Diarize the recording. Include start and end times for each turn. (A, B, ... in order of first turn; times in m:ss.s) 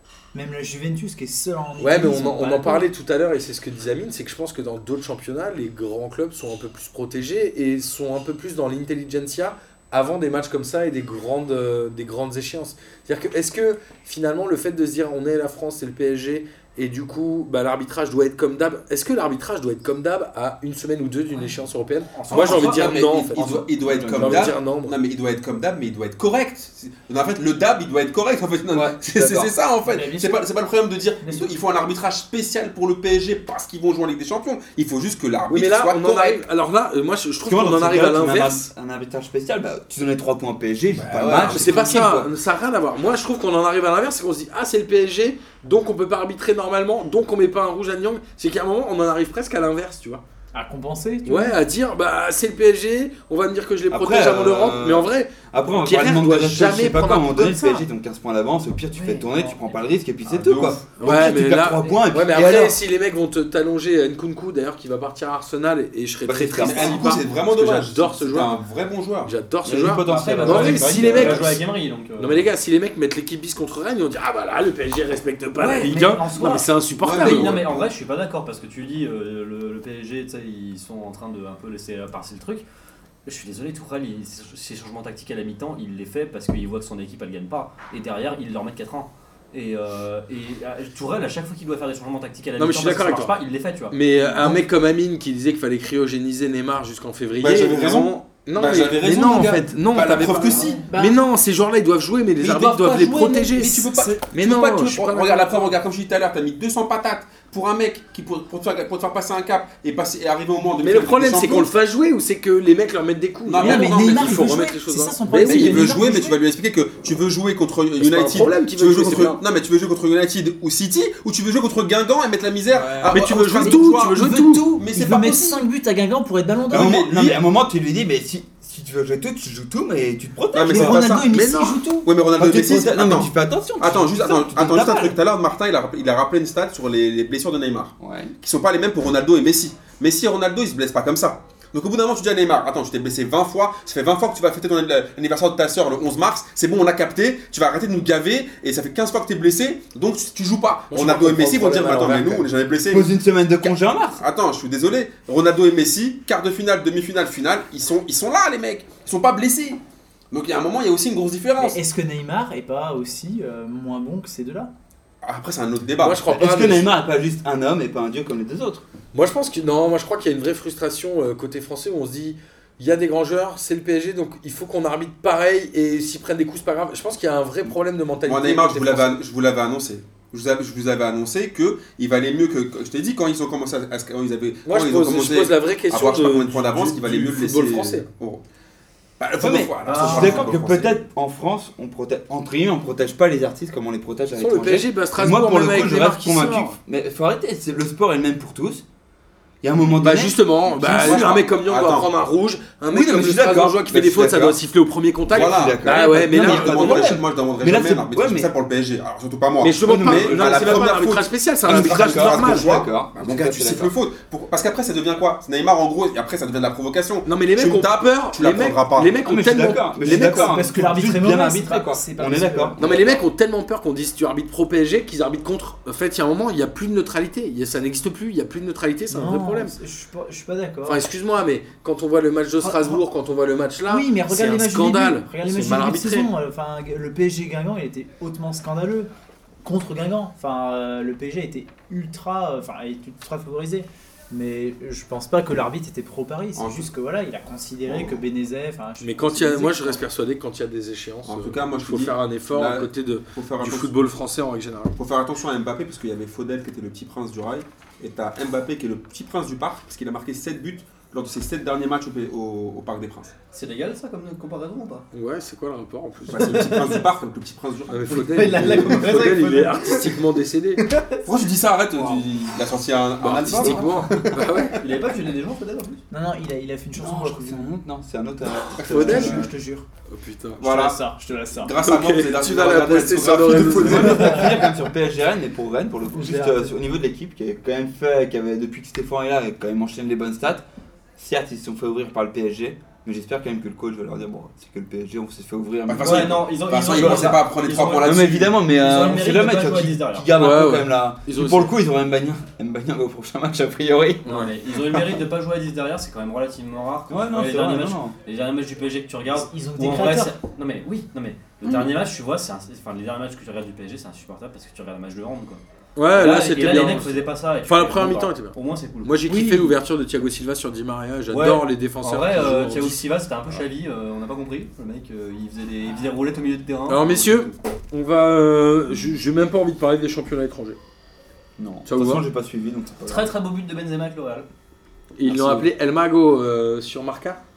0:00.3-0:02.9 A
0:01.8-0:25.0 B
0:22.2-0:22.8 C
0:22.3-0:36.4 D
0:23.4-0:24.5 E
0:28.7-0:29.5 E
0:29.8-0:30.5 A
0:31.2-0:31.5 A
0:35.5-0:38.7 B
0:37.5-0:42.3 E
0:40.9-0:41.9 D
0:41.4-0:50.2 B
0:50.5-0:51.6 A
0:51.2-0:57.8 B
0:53.9-1:02.8 E
0:58.9-0:59.8 A
1:00.2-1:00.9 D
1:01.0-1:08.6 B
1:06.2-1:07.1 E
1:06.6-1:09.3 D
1:09.2-1:11.6 B
1:09.6-1:11.5 E
1:10.1-1:12.5 C
1:11.1-1:11.5 D
1:12.2-1:17.6 B
1:15.6-1:16.7 A
1:17.0-1:17.9 D
1:17.1-1:22.6 C
1:23.2-1:34.0 C
1:32.6-1:33.4 B
1:33.9-1:45.7 B
1:37.4-1:40.8 D
1:40.3-1:41.2 A
1:42.4-1:51.7 D
1:50.8-1:55.9 B
1:53.5-1:54.6 D
1:53.6-1:56.4 A
1:55.4-2:05.7 D
1:58.0-1:59.4 B
2:02.7-2:03.3 E
2:03.0-2:04.7 B
2:03.6-2:07.0 A
2:06.7-2:07.4 D
2:06.7-2:15.2 E
2:10.5-2:11.3 D
2:11.3-2:11.8 B
2:12.0-2:33.1 D
2:18.0-2:18.3 E
2:30.9-2:32.5 B
2:32.9-2:34.2 E
2:33.6-2:41.8 D
2:41.6-2:44.7 A
2:45.2-2:46.2 D
2:46.0-2:46.9 B
2:46.3-2:48.8 E
2:49.1-2:59.2 B
2:58.3-3:08.4 D
3:04.6-3:08.1 B
3:09.2-3:11.0 D
3:09.4-3:18.8 E
3:09.8-3:10.6 C
3:14.4-3:16.8 B
3:19.6-3:21.4 E
3:20.0-3:27.1 B
3:20.9-3:22.1 D
3:22.9-3:24.6 E
3:25.3-3:28.5 E
3:25.3-3:39.2 D
3:29.6-3:32.7 B
3:29.8-3:31.0 E
3:31.6-3:33.9 E
3:37.2-3:40.6 B
3:39.2-3:43.2 E
3:40.1-3:42.8 A
3:42.8-3:49.8 B
3:49.1-3:51.0 A
3:50.8-3:56.3 B
3:52.6-3:53.0 A
3:53.8-3:59.1 A
3:59.6-4:10.0 A
4:06.6-4:06.9 D
4:07.9-4:08.2 D
4:09.0-4:15.0 B
4:11.2-4:14.0 D
4:15.0-4:23.3 D
4:23.5-4:25.1 C
4:25.1-4:26.9 B
4:26.3-4:29.1 D
4:26.4-4:27.0 C
4:27.9-4:30.8 B
4:28.1-4:30.2 C
4:30.8-4:31.2 C
4:31.2-4:34.6 D
4:32.0-4:32.2 E
4:33.2-4:34.8 B
4:33.5-4:34.0 E
4:34.7-4:36.0 C
4:36.1-4:37.7 A
4:37.0-4:39.5 E
4:38.8-4:39.2 D
4:38.9-4:39.5 B
4:38.9-4:39.9 A
4:40.1-4:40.7 B
4:40.6-4:41.0 D
4:40.6-4:41.7 A
4:41.6-4:44.6 D
4:41.8-4:44.4 B
4:43.7-4:50.6 E
4:46.1-4:46.7 A
4:51.2-4:57.4 E
4:55.9-4:58.6 D
4:56.0-5:00.3 C
4:58.0-5:04.4 E
5:00.4-5:01.7 B
5:04.2-5:15.6 C
5:04.3-5:04.5 B
5:07.1-5:08.2 E
5:09.3-5:10.4 A
5:16.0-5:23.0 B
5:16.1-5:19.2 C
5:19.3-5:19.8 A
5:21.3-5:27.6 C
5:26.9-5:30.8 B
5:31.6-5:33.3 E
5:31.9-5:32.2 B
5:33.1-5:34.5 C
5:35.2-5:37.4 B
5:35.2-5:35.7 E